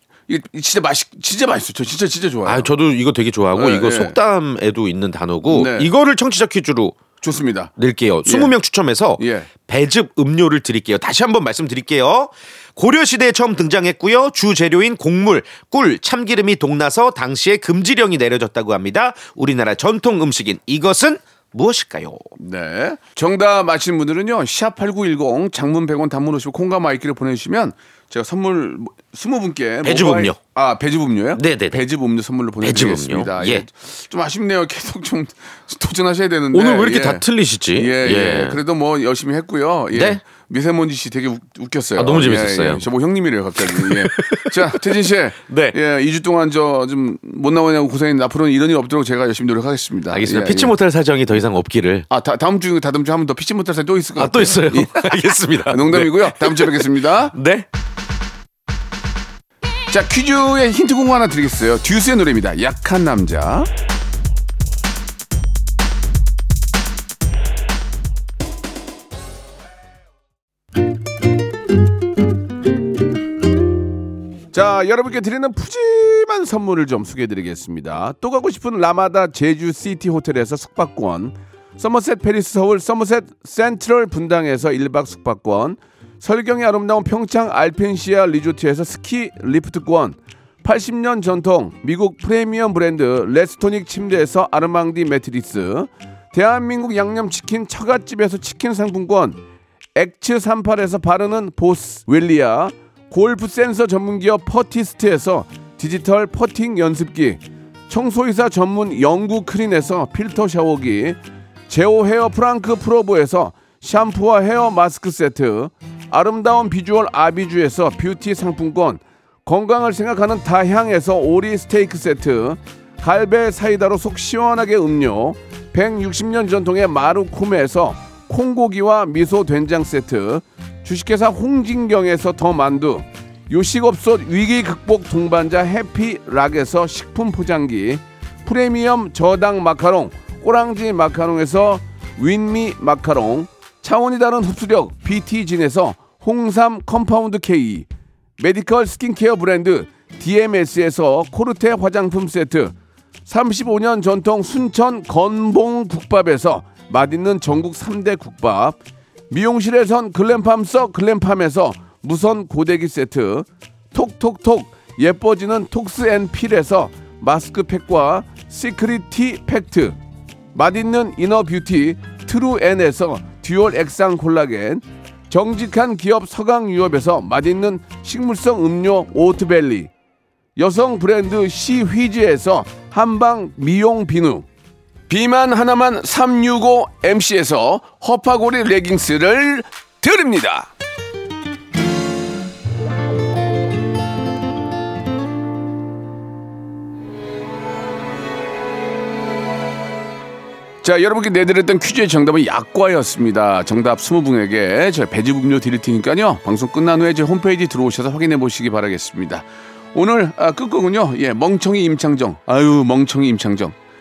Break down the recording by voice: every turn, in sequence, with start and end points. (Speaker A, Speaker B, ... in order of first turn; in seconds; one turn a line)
Speaker A: 0.3-2.7
Speaker B: 2.5-7.0
Speaker A: 3.5-4.2
Speaker A: 5.5-5.9
Speaker A: 7.2-7.7
Speaker B: 7.8-22.3
Speaker A: 8.2-8.6
Speaker A: 9.2-9.5
Speaker A: 22.4-50.7
Speaker B: 29.8-30.4
Speaker B: 31.4-31.8
Speaker B: 32.6-33.7
Speaker B: 36.5-38.6
Speaker B: 39.9-40.2
Speaker B: 42.0-42.9
Speaker B: 43.6-45.8
Speaker B: 50.1-52.1
Speaker A: 52.1-55.1
Speaker B: 54.2-57.7
Speaker A: 55.6-57.4
Speaker A: 59.9-63.7
Speaker A: 74.5-99.4
Speaker A: 100.0-111.2
Speaker A: 111.7-147.9
Speaker A: 148.4-152.8
Speaker A: 153.3-158.8
Speaker A: 159.3-170.0
Speaker A: 170.5-179.9
Speaker A: 180.6-184.5
Speaker A: 185.1-190.7
Speaker A: 200.8-213.8